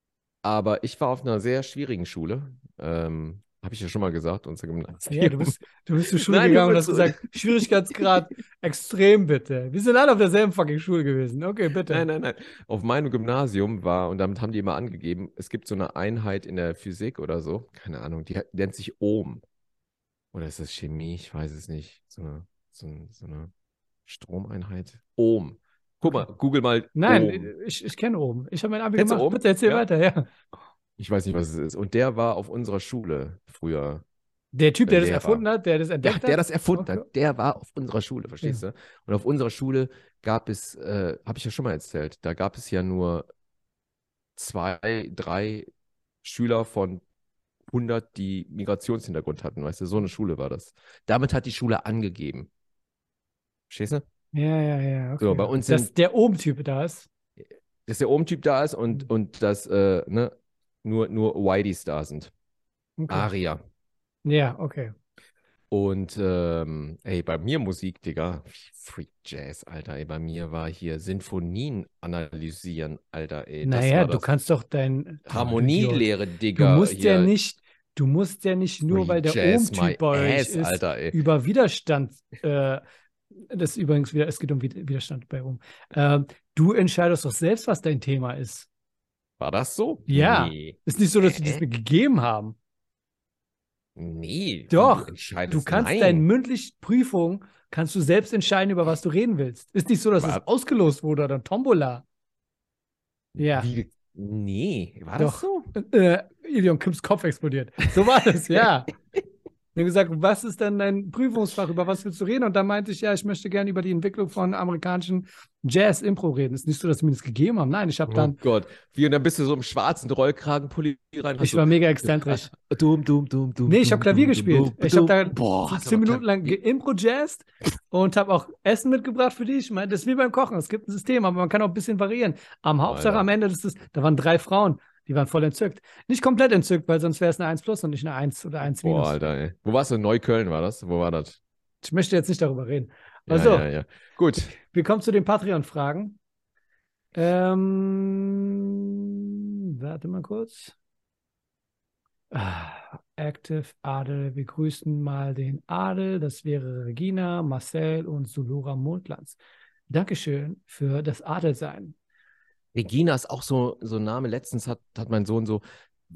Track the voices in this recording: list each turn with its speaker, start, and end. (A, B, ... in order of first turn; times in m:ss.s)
0:00.4-0:05.5 A
0:05.1-0:12.0 B
0:06.1-0:07.6 A
0:11.9-0:19.4 A
0:20.3-0:23.5 A
0:24.0-0:27.5 A
0:27.0-0:30.3 B
0:29.0-0:29.8 A
0:31.0-0:34.0 A
0:34.5-0:37.0 B
0:34.9-0:35.4 A
0:36.0-0:43.2 A
0:44.4-0:45.7 A
0:46.2-0:47.0 A
0:47.7-0:52.5 A
0:53.7-0:54.0 A
0:54.3-0:57.1 B
0:55.2-0:55.9 A
0:57.8-1:00.3 A
1:00.8-1:02.3 A
1:03.0-1:03.3 B
1:03.1-1:03.6 A
1:04.2-1:04.9 B
1:05.7-1:14.3 A
1:13.6-1:16.0 B
1:15.3-1:17.3 A
1:16.6-1:22.8 B
1:18.9-1:21.2 A
1:23.5-1:28.7 B
1:29.4-1:31.6 A
1:30.1-1:32.6 B
1:34.0-1:36.2 A
1:34.7-1:42.0 B
1:43.4-1:45.7 A
1:43.4-1:43.7 B
1:45.2-1:48.9 B
1:49.7-1:58.4 B
1:58.1-2:06.6 A
2:01.4-2:02.5 B
2:03.7-2:19.2 B
2:12.8-2:13.2 A
2:18.6-2:21.4 A
2:21.8-2:23.7 B
2:23.3-2:24.5 A
2:24.5-2:26.2 B
2:27.1-2:28.6 B
2:29.8-2:30.7 B
2:32.3-2:39.4 B
2:39.9-2:41.9 B
2:42.7-2:45.6 A